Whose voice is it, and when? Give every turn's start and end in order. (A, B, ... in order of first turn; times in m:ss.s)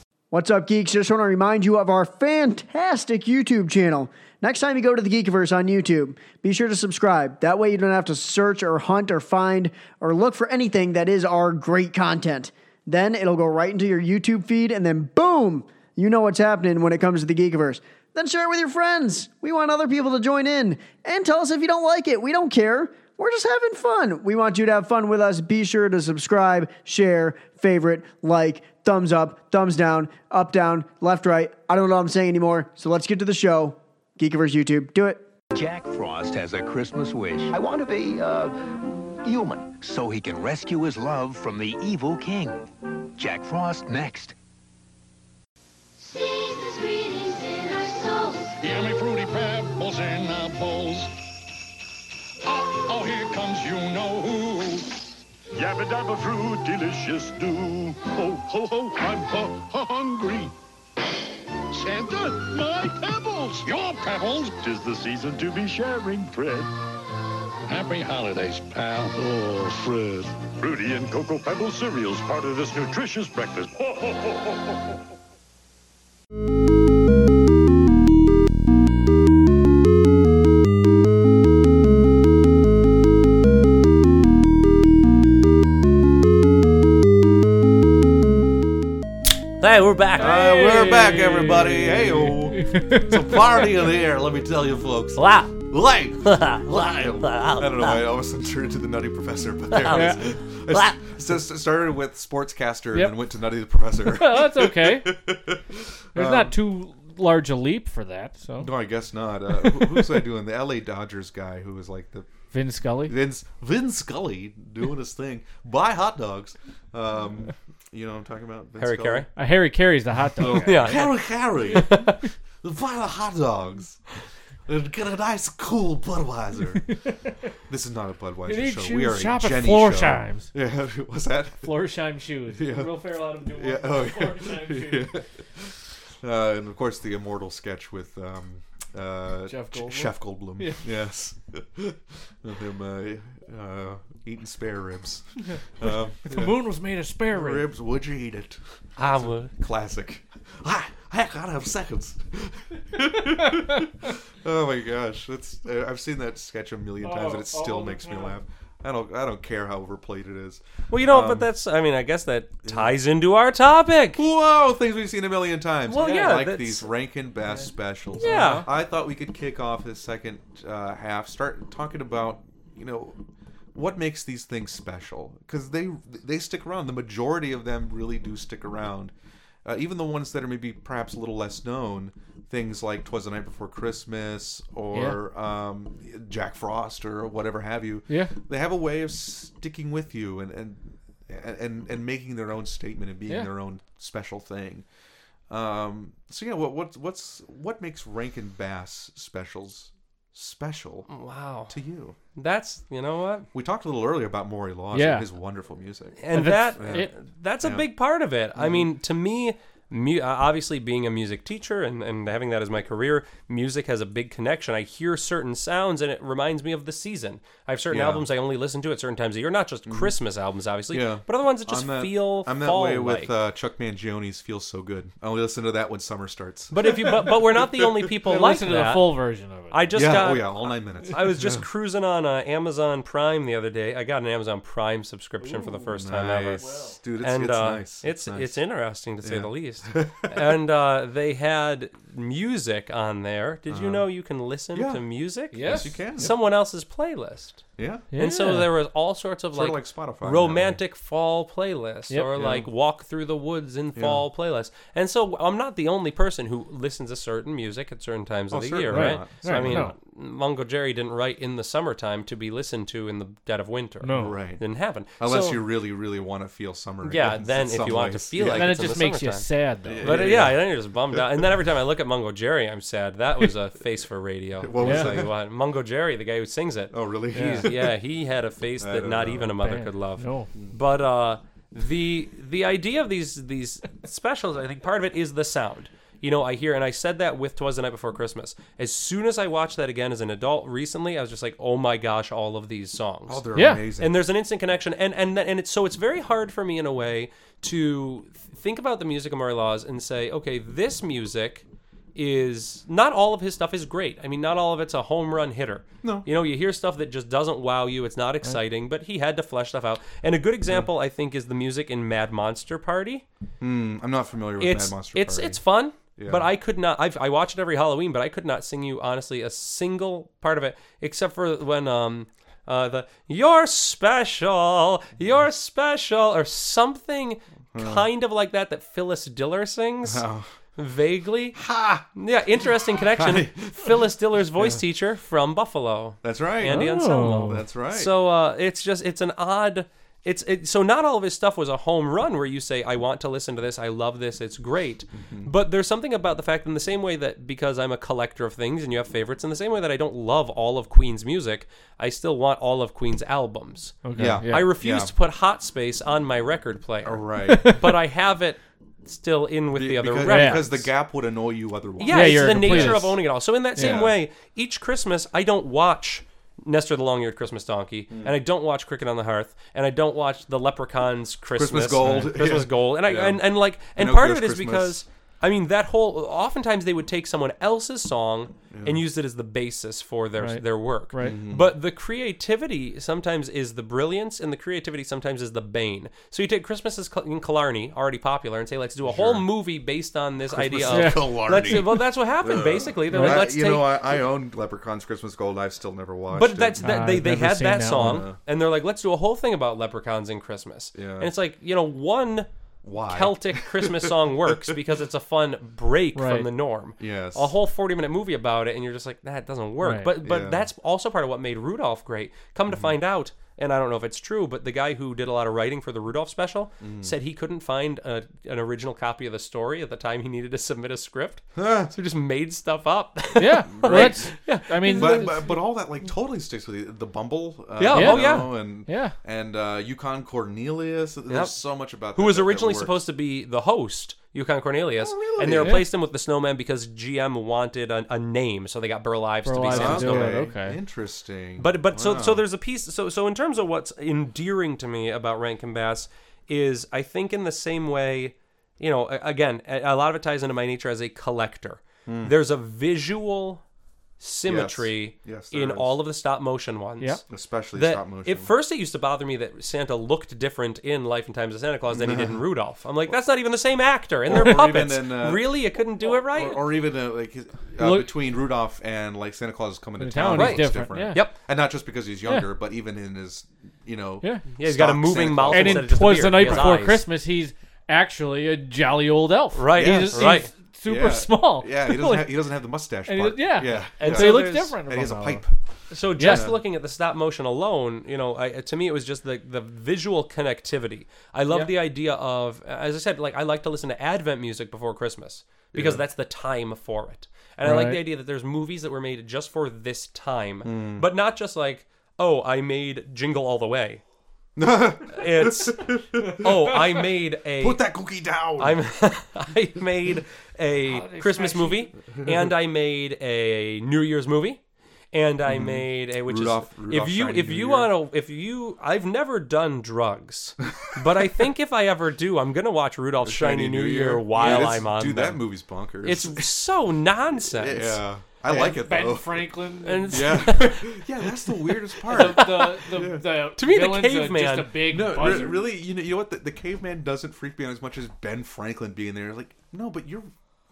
0:00.3-0:35.2 A
0:35.5-0:38.5 B
0:39.2-0:44.3 B
0:46.0-0:48.6 C
0:48.6-0:51.1 D
0:52.4-0:54.9 D
0:55.5-1:00.5 D
1:01.7-1:06.7 D
1:07.7-1:14.8 D
1:29.6-1:30.3 E
1:30.2-1:46.6 F
1:30.2-1:33.2 G
1:35.2-1:35.5 E
1:36.2-1:38.0 E
1:39.7-1:41.0 E
1:39.9-1:40.2 G
1:44.0-1:45.2 G
1:46.1-1:48.7 G
1:48.6-1:52.3 F
1:52.5-1:53.1 G
1:53.0-1:59.3 F
1:58.8-1:59.3 E
1:59.4-2:00.8 G
2:00.4-2:04.0 F
2:00.4-2:02.2 E
2:04.6-2:06.9 F
2:07.7-2:11.8 F
2:08.5-2:10.5 G
2:11.6-2:15.2 G
2:12.5-2:26.6 F
2:19.5-2:20.8 G
2:26.2-2:27.7 G
2:27.3-2:41.5 F
2:29.0-2:29.5 E
2:37.0-2:38.4 G
2:40.9-2:44.2 E
2:42.6-2:42.9 F
2:44.1-2:53.2 F
2:45.9-2:46.9 E
2:46.0-2:46.3 G
2:48.2-2:48.6 G
2:48.2-2:48.7 E
2:53.7-2:59.1 F
2:59.6-3:14.8 F
3:04.9-3:05.2 G
3:08.1-3:08.3 G
3:15.5-3:21.1 F
3:21.1-3:21.8 E
3:21.7-3:22.2 F
3:22.3-3:23.5 E
3:23.5-3:27.1 F
3:24.9-3:25.3 G
3:26.2-3:43.3 E
3:26.3-3:27.1 G
3:27.6-3:27.9 F
3:28.6-3:28.9 F
3:37.9-3:38.2 F
3:39.9-3:40.1 F
3:40.9-3:48.1 F
3:46.7-3:49.2 E
3:48.2-3:49.8 G
3:49.7-4:25.5 E
3:49.9-3:51.6 F
3:55.4-3:56.0 G
3:56.0-3:58.6 F
3:56.5-3:57.0 G
3:59.2-4:00.5 F
4:03.7-4:04.1 F
4:04.7-4:05.0 F
4:05.5-4:06.3 G
4:05.6-4:06.4 F
4:07.8-4:08.1 F
4:08.1-4:08.7 G
4:09.5-4:10.8 F
4:12.1-4:12.6 G
4:12.4-4:12.6 F
4:13.9-4:14.2 F
4:18.5-4:19.9 F
4:18.9-4:19.9 G
4:24.0-4:24.4 G
4:24.1-4:28.9 F
4:25.3-4:25.5 G
4:27.0-4:53.4 E
4:28.5-4:30.3 G
4:29.8-4:31.4 F
4:34.6-4:35.3 F
4:34.8-4:35.2 G
4:36.9-4:38.0 F
4:37.3-4:37.7 G
4:38.8-4:39.5 F
4:39.6-4:40.5 G
4:53.3-4:54.2 F
4:53.5-4:53.8 G
4:54.0-5:13.2 E
5:13.6-5:15.6 F
5:14.6-5:30.2 E
5:16.2-5:16.5 F
5:27.7-5:28.1 F
5:30.0-5:30.5 F
5:30.8-5:31.6 E
5:31.5-5:32.1 F
5:32.2-6:00.9 E
5:33.0-5:34.8 F
5:36.2-5:38.1 F
5:36.6-5:37.6 G
5:45.2-5:45.5 F
5:54.0-5:54.7 G
5:54.2-5:55.1 F
5:57.0-5:57.8 F
5:57.5-5:57.8 G
5:59.7-6:03.2 F
6:00.3-6:00.6 G
6:02.0-6:34.1 E
6:02.0-6:03.2 G
6:03.7-6:04.0 G
6:03.7-6:04.2 F
6:11.5-6:15.0 F
6:18.7-6:19.0 F
6:20.4-6:21.4 G
6:21.2-6:21.7 F
6:29.0-6:29.5 F
6:30.4-6:36.9 F
6:30.9-6:31.2 G
6:33.1-6:33.4 G
6:36.3-6:42.5 E
6:36.8-6:38.2 G
6:37.9-6:38.4 F
6:40.9-6:41.3 F
6:42.8-6:44.8 F
6:43.1-7:05.4 E
6:46.2-6:46.5 G
6:47.0-6:47.5 F
6:49.8-6:50.1 G
6:50.2-6:50.7 F
6:56.8-6:57.1 F
7:01.5-7:01.9 F
7:03.4-7:05.4 G
7:03.7-7:13.0 F
7:07.8-7:08.5 E
7:07.9-7:09.1 G
7:11.3-7:11.5 E
7:12.1-7:20.4 E
7:15.0-7:15.8 F
7:15.5-7:15.8 G
7:19.4-7:20.8 G
7:19.7-7:22.4 F
7:21.6-7:33.6 E
7:32.0-7:32.3 F
7:34.2-7:37.2 E
7:34.4-7:35.9 F
7:37.3-7:38.5 F
7:37.7-7:46.7 E
7:41.9-7:42.4 F
7:44.2-7:56.8 F
7:47.8-7:48.1 G
7:50.0-7:51.2 G
7:50.3-7:51.3 E
7:54.6-7:57.0 E
7:55.5-8:02.4 G
7:59.5-8:00.5 E
7:59.7-8:06.6 F
8:03.1-8:05.4 G
8:04.0-8:04.7 E
8:05.9-8:24.0 E
8:06.2-8:06.5 G
8:15.7-8:16.0 F
8:17.6-8:18.0 G
8:20.6-8:21.1 F
8:24.6-8:26.8 F
8:25.1-8:27.9 E
8:27.6-8:28.8 F
8:28.6-8:34.6 E
8:30.8-8:31.9 G
8:32.1-8:32.5 F
8:35.1-8:45.4 E
8:35.4-8:37.9 F
8:43.2-8:46.5 F
8:46.0-8:48.0 E
8:47.4-8:53.3 F
8:48.4-8:50.6 G
8:49.8-8:51.0 E
8:52.1-8:55.6 G
8:52.1-8:52.8 E
8:53.6-8:55.4 E
8:54.9-9:00.3 F